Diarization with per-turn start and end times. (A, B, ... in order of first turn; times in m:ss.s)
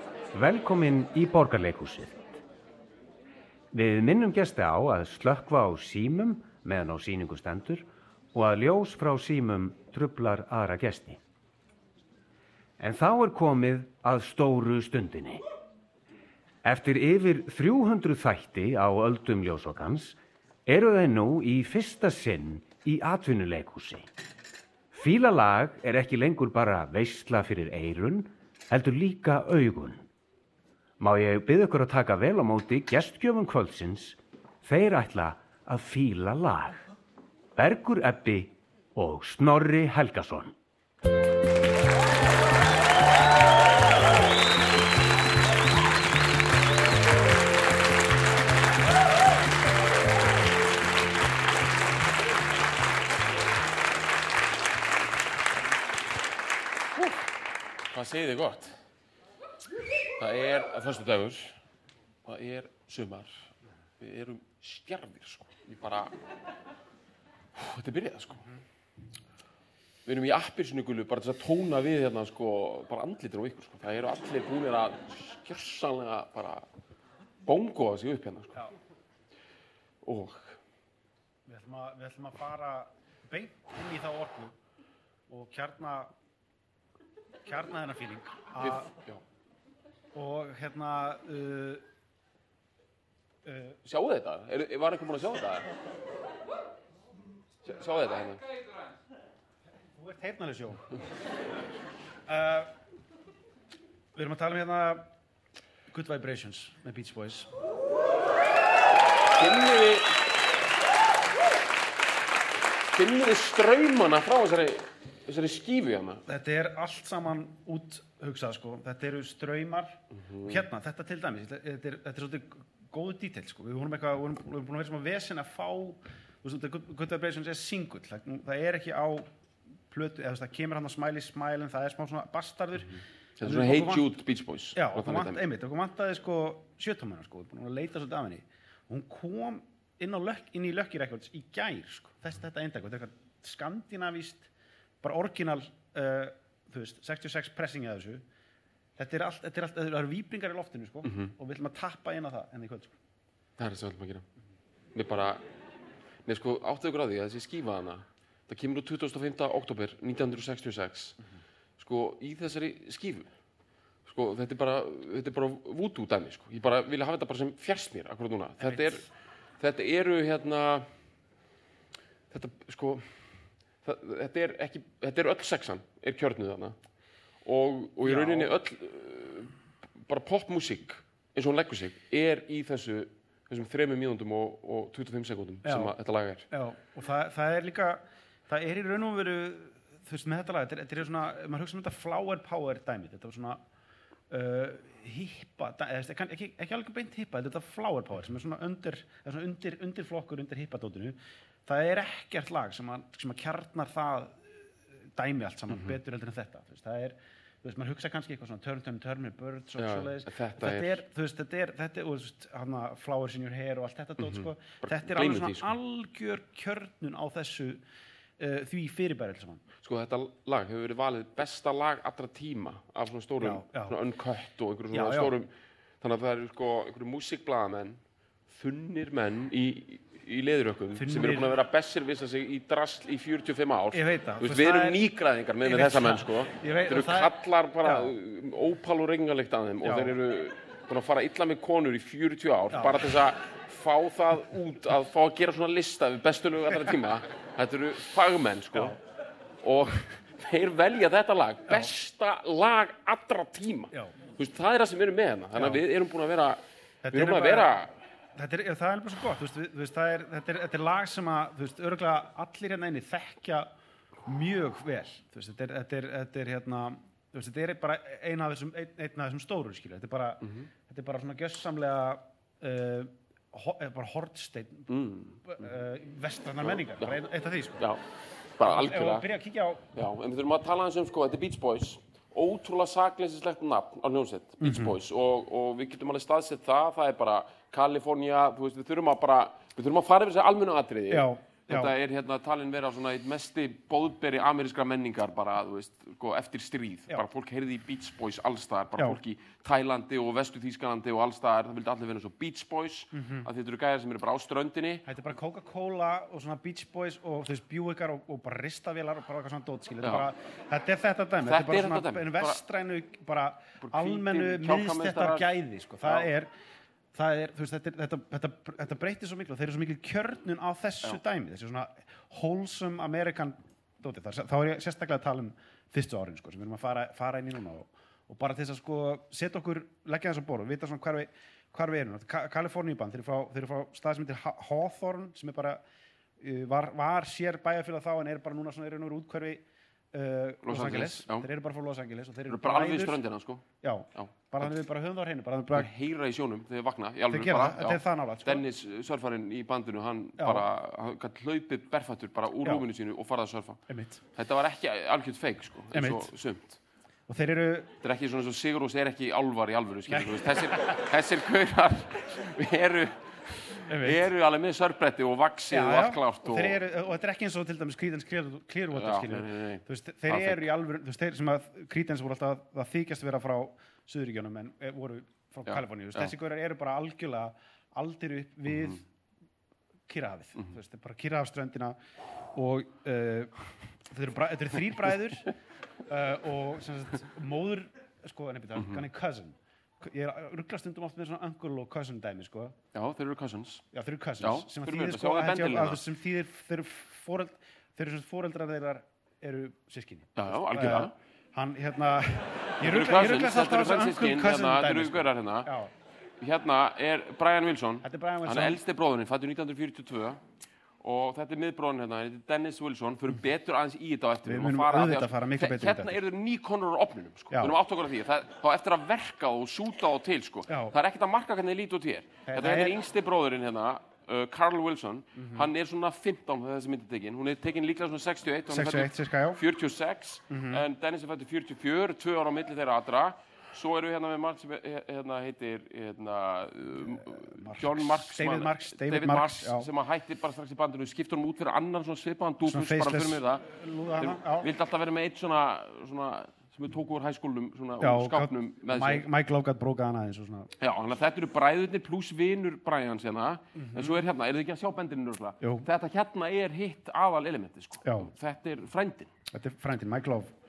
0:00.3-0:02.4 A
0:03.7-0:11.2 A
0:12.8-0:15.4 A
0:16.6-0:24.1 A
0:24.9-0:30.0 A
0:31.0-0:36.8 A
0:37.6-0:40.5 A
0:57.0-0:57.2 B
0:57.9-0:58.8 B
1:00.2-1:01.6 B
1:02.2-1:06.1 B
1:07.6-1:08.5 B
1:10.0-1:16.6 B
1:17.4-1:18.7 B
1:20.0-1:20.6 B
1:21.4-1:24.6 C
1:25.3-1:26.1 C
1:27.4-1:28.9 C
1:28.6-1:29.2 B
1:30.1-1:31.8 C
1:33.4-1:33.8 C
1:33.8-1:35.7 B
1:37.6-1:38.5 B
1:39.9-1:41.0 C
1:42.3-1:42.7 C
1:44.1-1:45.1 C
1:45.9-1:47.5 C
1:49.3-1:50.2 B
1:52.9-1:56.2 B
1:56.3-2:09.3 C
2:00.1-2:00.6 B
2:09.9-2:14.1 C
2:13.4-2:15.4 B
2:14.7-2:24.5 C
2:25.0-2:28.2 C
2:29.0-2:32.9 C
2:31.0-2:31.3 B
2:33.6-2:34.2 B
2:34.9-2:35.4 B
2:36.2-2:41.2 B
2:41.8-2:43.3 B
2:44.0-2:49.0 B
2:48.6-2:49.0 C
2:49.6-2:50.9 B
2:52.3-2:56.8 B
2:57.4-2:59.5 B
2:58.0-2:58.5 C
3:00.0-3:06.5 B
3:05.6-3:05.9 C
3:06.5-3:13.6 C
3:14.3-3:24.6 C
3:25.1-3:37.8 C
3:29.8-3:31.0 B
3:34.2-3:35.7 B
3:38.4-3:39.6 C
3:39.8-4:09.0 B
3:43.4-3:44.0 C
3:44.9-3:45.3 C
3:50.9-3:51.5 C
3:53.9-3:55.0 C
3:55.6-3:58.1 C
3:59.8-4:00.2 C
4:02.7-4:03.0 C
4:09.6-4:17.9 B
4:15.5-4:15.8 C
4:17.0-4:17.7 C
4:18.3-4:23.7 C
4:24.2-4:34.9 C
4:34.9-4:35.6 B
4:35.4-4:37.8 C
4:36.7-4:37.2 B
4:38.6-4:39.3 B
4:38.6-4:39.9 C
4:39.9-5:05.1 B
4:44.6-4:44.9 C
4:51.1-4:51.9 C
5:03.1-5:03.5 C
5:05.0-5:16.5 C
5:10.0-5:10.3 B
5:11.4-5:12.6 B
5:13.8-5:15.5 B
5:17.1-5:35.8 C
5:36.4-5:43.2 C
5:40.6-5:41.5 B
5:42.5-5:44.7 B
5:43.8-5:45.9 C
5:45.7-5:53.8 B
5:47.3-5:48.6 C
5:50.4-5:50.7 C
5:53.9-5:54.2 C
5:54.3-5:56.8 B
5:55.9-5:56.3 C
5:57.3-5:57.9 C
5:58.0-6:06.8 B
6:00.1-6:00.9 C
6:03.9-6:04.3 C
6:05.7-6:19.0 C
6:08.9-6:10.7 B
6:15.7-6:16.3 B
6:20.1-6:22.0 C
6:22.5-6:23.5 C
6:24.1-6:25.5 C
6:26.1-6:32.8 C
6:32.9-6:33.8 B
6:33.9-6:45.9 C
6:34.4-6:36.0 B
6:40.4-6:41.1 B
6:42.8-6:45.7 B
6:46.4-6:50.4 B
6:48.0-6:48.8 C
6:51.0-7:23.6 B
6:54.4-6:56.1 C
6:57.5-6:57.8 C
7:00.7-7:00.9 C
7:02.5-7:03.0 C
7:05.4-7:05.7 C
7:08.7-7:09.6 C
7:10.5-7:10.8 C
7:17.3-7:19.9 C
7:22.6-7:24.7 C
7:24.2-7:29.2 B
7:28.0-7:30.7 C
7:30.8-7:39.3 B
7:33.8-7:34.2 C
7:35.6-7:35.9 C
7:38.0-7:38.3 C
7:39.5-7:40.5 C